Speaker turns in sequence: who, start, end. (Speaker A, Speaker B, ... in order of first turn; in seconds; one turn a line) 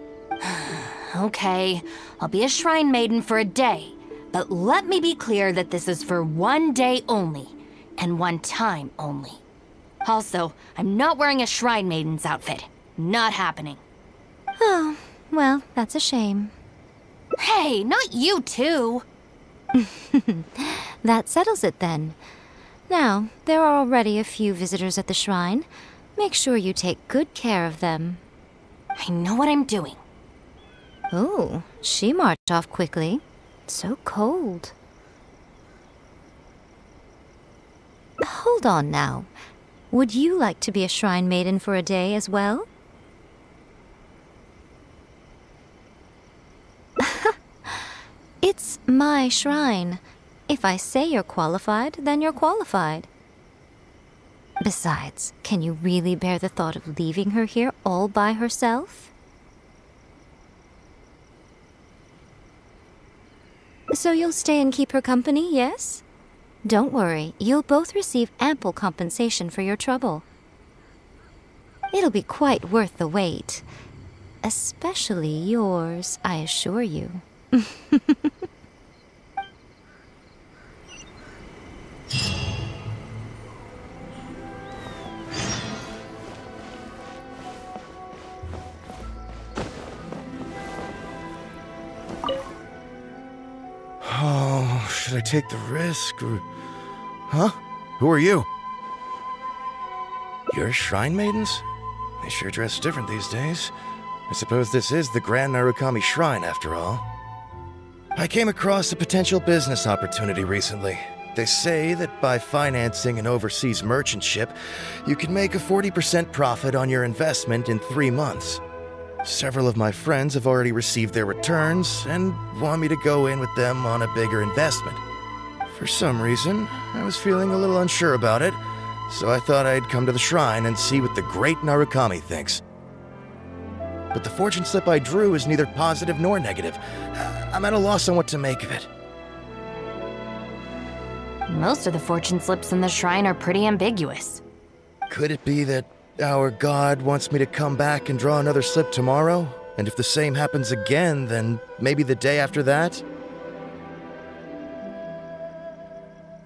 Speaker A: 0.4-9.4
Speaker A: 10.0-13.8
Speaker B: 14.6-16.5
Speaker A: 17.4-19.0
Speaker B: 19.8-22.2
Speaker B: 22.9-28.2
Speaker A: 29.0-30.0
Speaker B: 31.1-34.7
Speaker B: 38.2-39.3
Speaker B: 39.9-42.7
Speaker B: 47.0-47.8
Speaker B: 48.4-53.1
Speaker B: 54.6-59.1
Speaker B: 63.9-66.0
Speaker B: 66.6-70.2
Speaker B: 71.9-73.7
Speaker B: 74.4-78.3
Speaker C: 94.0-96.4
Speaker C: 97.3-98.5
Speaker C: 100.5-101.7
Speaker C: 102.2-103.7
Speaker C: 104.3-107.0
Speaker C: 108.2-118.6
Speaker C: 119.2-125.0
Speaker C: 125.7-132.6
Speaker C: 134.1-138.9
Speaker A: 141.5-144.4
Speaker C: 145.1-153.0